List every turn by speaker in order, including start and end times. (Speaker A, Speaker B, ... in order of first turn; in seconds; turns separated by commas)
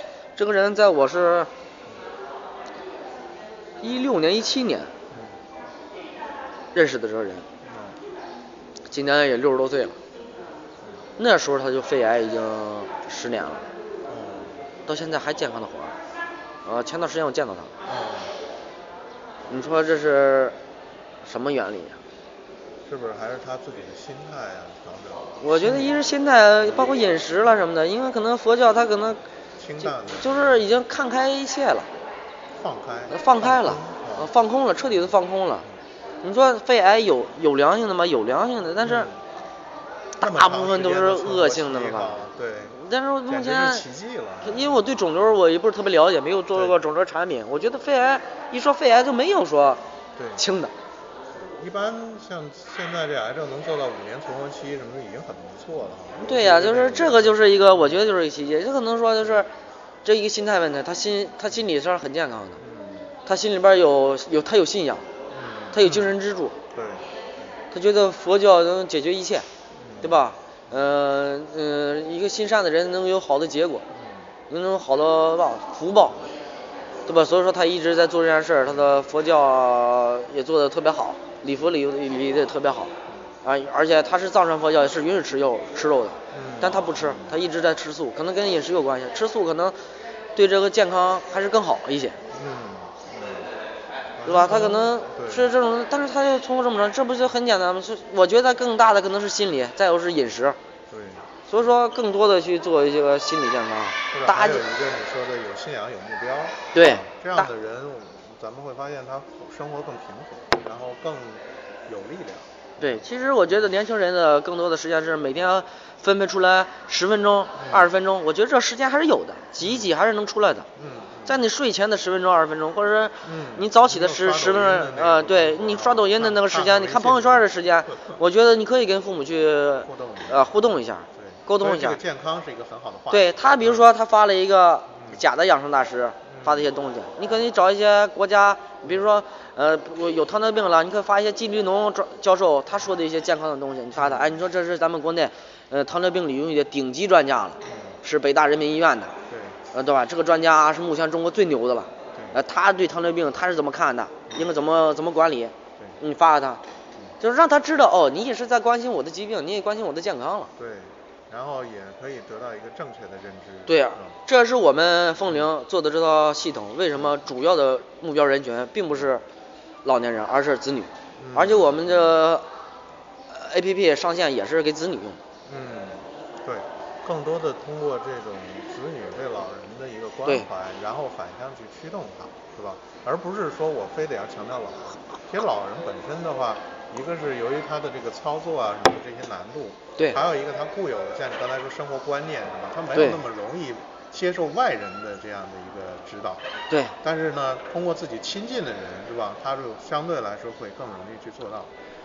Speaker A: 0.3-1.5, Speaker A: 3.8-4.9, Speaker B: 5.1-5.4, Speaker A: 6.7-7.4, Speaker B: 7.6-8.0, Speaker A: 8.9-10.0, Speaker A: 11.2-13.7, Speaker B: 14.1-14.7, Speaker A: 14.9-16.0, Speaker A: 16.6-17.8, Speaker B: 17.8-18.3, Speaker A: 19.5-20.6, Speaker A: 21.2-22.0, Speaker B: 22.9-26.0, Speaker A: 25.4-29.2, Speaker B: 26.6-26.9, Speaker B: 29.6-30.8, Speaker A: 30.1-31.9, Speaker B: 32.5-34.3, Speaker A: 33.1-35.6, Speaker A: 36.2-39.1, Speaker B: 38.8-39.3, Speaker B: 40.2-45.4, Speaker A: 40.2-42.1, Speaker A: 42.7-43.9, Speaker A: 44.4-49.8, Speaker B: 46.5-46.8, Speaker B: 50.1-50.4, Speaker A: 50.4-50.7, Speaker B: 51.3-58.0, Speaker A: 56.2-59.5, Speaker A: 60.0-62.6, Speaker B: 62.6-63.1, Speaker A: 63.2-65.0, Speaker B: 65.3-66.1, Speaker A: 65.7-66.5, Speaker B: 66.7-67.1, Speaker A: 67.7-69.5, Speaker B: 69.7-70.9, Speaker A: 70.0-73.8, Speaker B: 73.9-74.3, Speaker A: 74.5-76.2, Speaker A: 77.1-82.9, Speaker B: 78.7-78.9, Speaker A: 83.4-89.8, Speaker B: 86.3-87.4, Speaker A: 90.3-92.2, Speaker B: 92.3-93.5, Speaker B: 94.1-95.5, Speaker A: 94.2-100.6, Speaker B: 100.9-101.3, Speaker A: 101.5-104.6, Speaker B: 104.1-113.7, Speaker A: 106.7-107.5, Speaker A: 112.8-120.7, Speaker B: 117.5-117.9, Speaker B: 119.6-119.9, Speaker B: 120.8-121.4, Speaker A: 121.2-132.0, Speaker B: 123.2-127.5, Speaker B: 129.8-133.8, Speaker A: 133.1-149.2, Speaker B: 134.9-135.2, Speaker B: 136.2-136.7, Speaker B: 143.9-144.4, Speaker B: 147.6-148.0, Speaker B: 149.3-149.6, Speaker A: 149.7-156.6, Speaker B: 152.1-152.4, Speaker A: 157.2-160.5, Speaker B: 160.6-164.2, Speaker A: 163.7-169.2, Speaker A: 169.8-172.4, Speaker B: 171.2-172.2, Speaker A: 173.3-175.2, Speaker B: 175.4-201.7, Speaker A: 196.7-196.9